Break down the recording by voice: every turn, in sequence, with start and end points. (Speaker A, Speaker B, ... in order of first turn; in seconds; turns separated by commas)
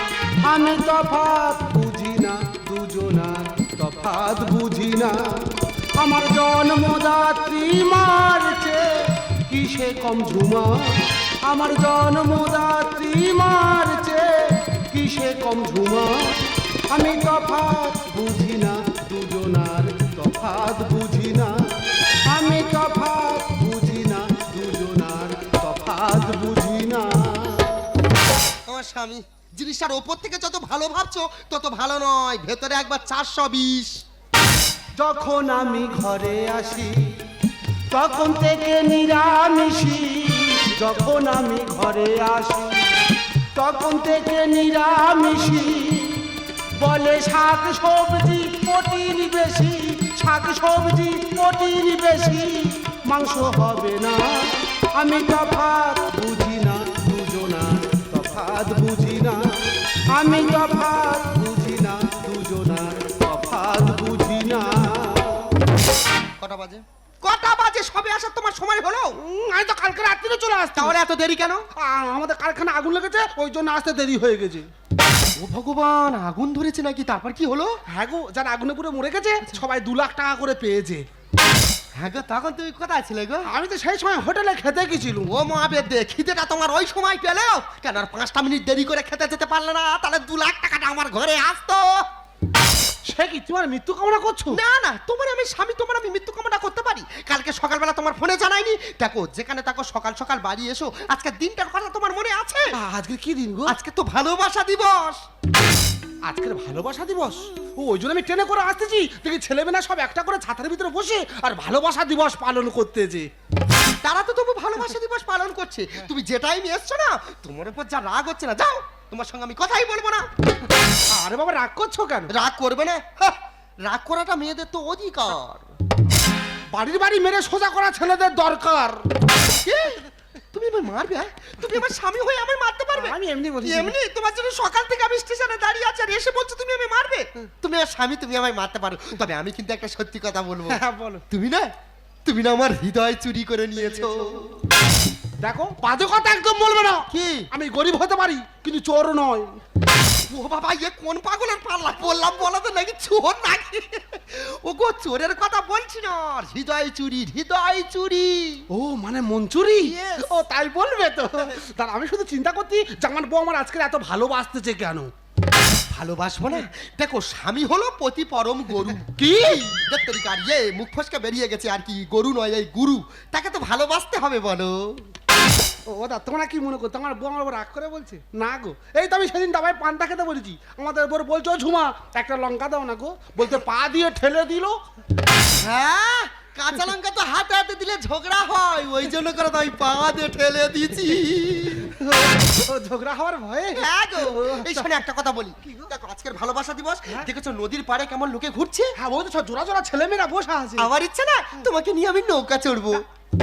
Speaker A: 0.4-16.3, Speaker A: 16.9-21.6, Speaker A: 22.3-27.8, Speaker B: 28.7-34.0, Speaker A: 35.0-37.1, Speaker A: 37.9-42.9, Speaker A: 43.5-46.2, Speaker A: 46.8-59.5, Speaker A: 60.1-65.5, Speaker B: 66.4-69.2, Speaker A: 69.2-71.0, Speaker B: 70.8-71.7, Speaker A: 71.7-74.7, Speaker B: 75.4-77.8, Speaker A: 77.9-81.0, Speaker B: 82.0-83.5, Speaker A: 83.4-85.3, Speaker B: 85.3-92.0, Speaker A: 93.1-94.6, Speaker B: 94.5-102.7, Speaker A: 102.7-103.8, Speaker B: 103.7-105.2, Speaker A: 106.2-113.3, Speaker B: 114.0-120.3, Speaker A: 121.1-122.3, Speaker B: 122.3-125.7, Speaker A: 126.7-129.1, Speaker B: 129.6-141.7, Speaker A: 132.9-133.9, Speaker A: 140.7-141.2, Speaker B: 142.2-144.5, Speaker A: 145.4-149.6, Speaker B: 147.1-147.5, Speaker B: 150.3-158.6, Speaker A: 158.7-165.1, Speaker B: 159.8-160.3, Speaker B: 165.9-175.0, Speaker A: 175.9-184.8, Speaker B: 185.6-191.9, Speaker A: 191.9-194.9, Speaker B: 193.7-198.9, Speaker A: 199.0-200.9, Speaker B: 200.8-203.0